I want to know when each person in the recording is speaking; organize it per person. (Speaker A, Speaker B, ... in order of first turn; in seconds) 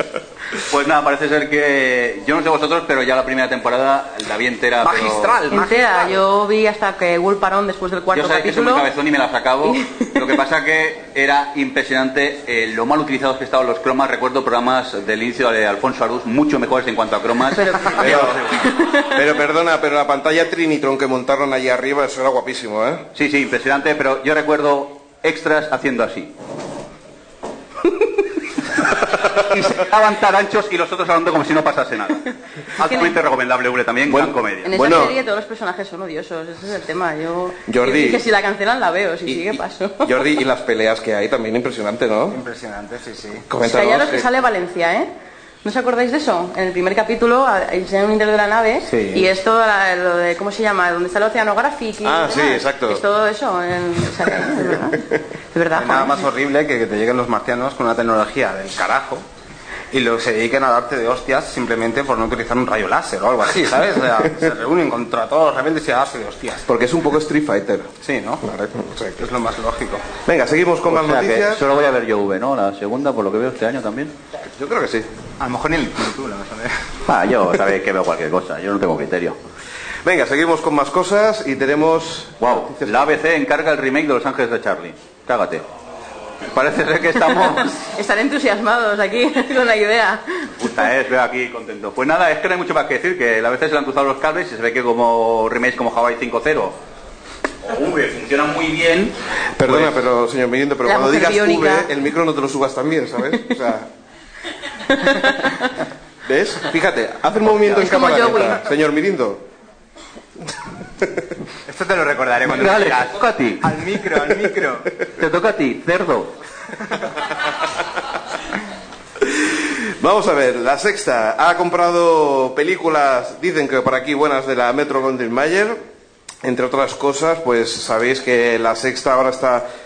Speaker A: 0.6-5.5, 8.1-18.4, 23.1-26.3, 29.1-35.0, 70.9-74.1, 77.0-79.4, 82.4-85.6, 86.5-87.9, 90.6-96.7, 97.6-99.1, 99.7-100.0, 112.5-113.6, 115.2-116.3
Speaker B: 5.5-8.9, 9.7-10.1, 17.6-19.1, 32.8-33.1, 34.6-40.2, 43.6-45.1, 45.6-56.2, 87.9-90.5, 100.8-101.9, 104.9-105.7, 107.7-108.6
Speaker C: 17.9-23.0, 34.0-35.1, 37.7-38.2, 40.0-42.4, 43.5-44.3, 52.0-53.0, 54.5-54.9, 66.7-67.9, 68.8-69.1, 70.2-71.6, 74.5-75.1, 80.0-83.1, 99.6-103.9, 106.2-109.4, 119.2-125.8, 126.4-129.6
Speaker D: 42.3-43.5, 48.9-49.3, 55.8-59.2, 59.9-66.7, 68.0-70.0, 76.2-76.7
Speaker E: 75.4-76.5, 111.7-114.9